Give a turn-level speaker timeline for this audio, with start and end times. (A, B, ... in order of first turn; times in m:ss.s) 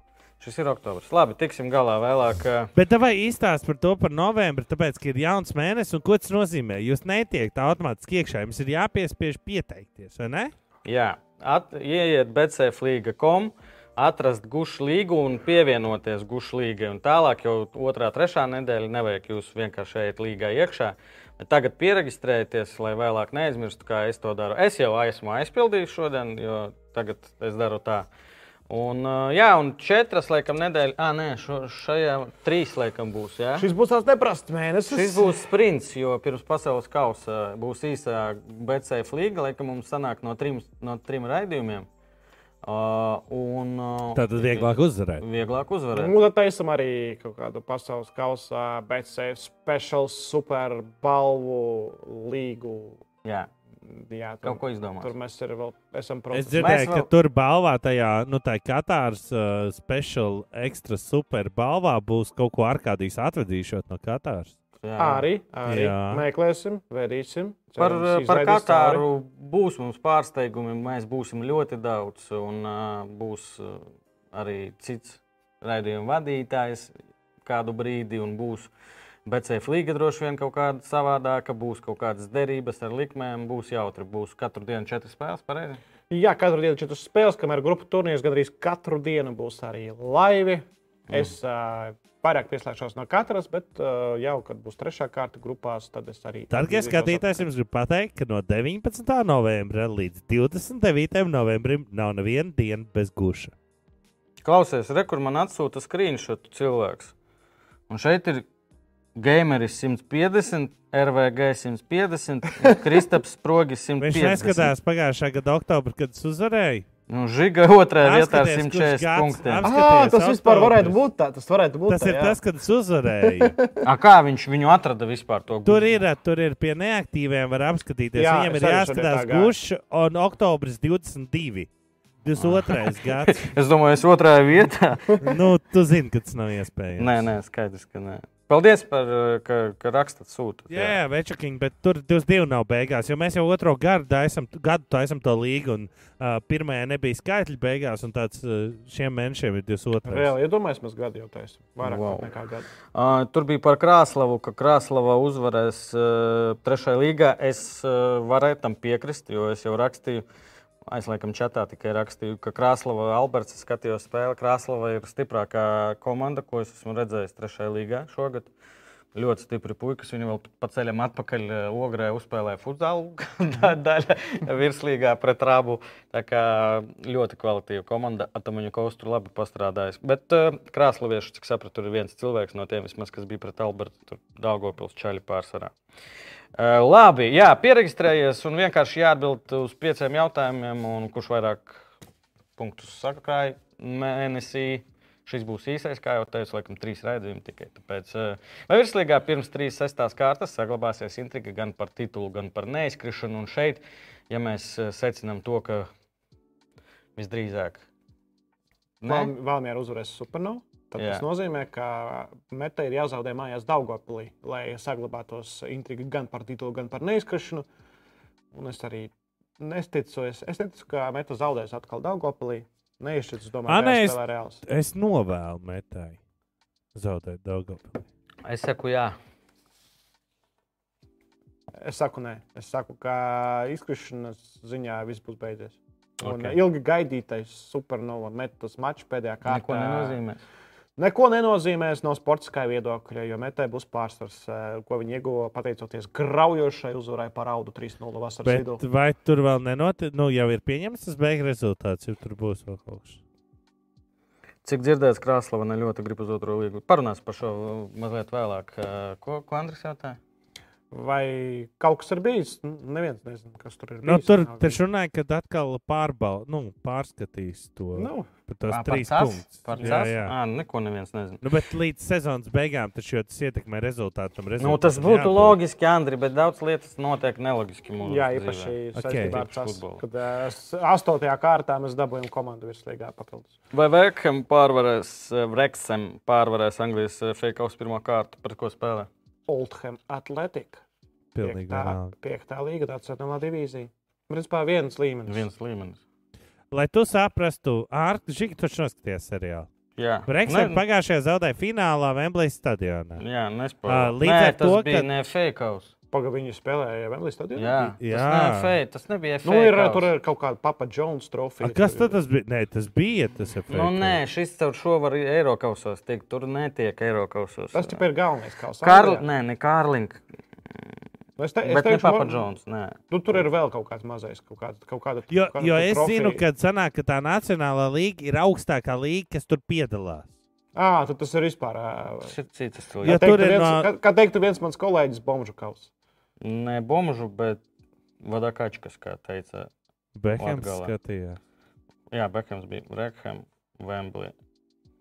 0:00.4-0:02.7 A
0:02.8-0:10.5 B
0:10.8-0:28.1 A
0:28.7-0:33.7 A
0:33.6-0:35.4 C
0:34.9-0:41.9 A
0:42.6-0:46.2 A
0:44.2-0:45.2 B
0:45.9-0:53.0 C
0:53.2-0:53.5 A
0:53.9-0:56.8 C
0:54.4-0:55.1 A
0:56.3-1:04.6 B
0:56.6-0:57.1 A
1:04.8-1:05.3 A
1:05.0-1:09.0 C
1:05.7-1:06.2 B
1:07.8-1:18.7 A
1:19.3-1:25.8 A
1:26.1-1:37.5 C
1:36.5-1:43.5 B
1:44.4-1:47.1 A
1:47.9-1:48.5 A
1:49.2-1:54.7 A
1:54.0-1:56.8 B
1:57.1-1:59.7 A
1:58.0-2:01.0 B
1:59.6-2:02.4 C
2:01.9-2:03.6 B
2:03.2-2:03.8 C
2:03.8-2:06.0 A
2:05.6-2:11.7 B
2:08.2-2:09.5 C
2:12.2-2:13.5 B
2:12.4-2:15.2 A
2:15.2-2:17.2 B
2:17.0-2:21.0 A
2:20.7-2:30.3 B
2:30.1-2:32.7 C
2:31.8-2:32.3 A
2:32.9-2:40.2 A
2:40.9-2:48.5 A
2:49.1-3:05.7 A
3:06.6-3:11.9 A
3:12.6-3:25.9 A
3:27.2-3:27.9 A
3:29.0-3:29.3 A
3:29.0-3:37.7 C
3:31.0-3:31.2 A
3:38.5-3:44.6 C
3:43.7-3:46.2 B
3:47.0-3:48.0 B
3:48.4-3:49.2 A
3:51.8-4:00.2 C
3:56.2-3:56.6 A
3:59.4-4:00.4 A
4:01.0-4:08.8 C
4:08.4-4:13.2 B
4:14.6-4:20.2 A
4:20.9-4:24.8 C
4:24.0-4:30.3 B
4:28.0-4:28.3 C
4:28.7-4:31.4 A
4:31.4-4:35.6 B
4:34.6-4:40.0 A
4:38.0-4:43.5 C
4:39.0-4:39.4 B
4:43.7-4:49.1 A
4:49.5-4:50.8 C
4:51.4-4:52.1 B
4:51.4-4:55.5 C
4:55.3-4:56.0 A
4:56.7-4:59.7 B
5:00.0-5:00.8 A
5:00.3-5:03.2 B
5:03.2-5:05.9 A
5:03.9-5:05.1 B
5:06.1-5:08.0 C
5:07.6-5:10.1 A
5:08.0-5:08.7 B
5:09.4-5:12.2 C
5:11.6-5:14.2 B
5:13.7-5:18.0 A
5:17.7-5:19.3 C
5:18.8-5:20.2 A
5:21.4-5:22.5 C
5:21.6-5:23.4 A
5:23.1-5:26.4 C
5:25.3-5:30.3 B
5:30.8-5:32.3 C
5:32.2-5:33.4 A
5:33.0-5:33.9 B
5:33.1-5:35.9 C
5:36.4-5:37.6 A
5:38.2-5:39.7 A
5:40.2-5:41.4 B
5:40.4-5:40.9 A
5:42.1-5:44.4 A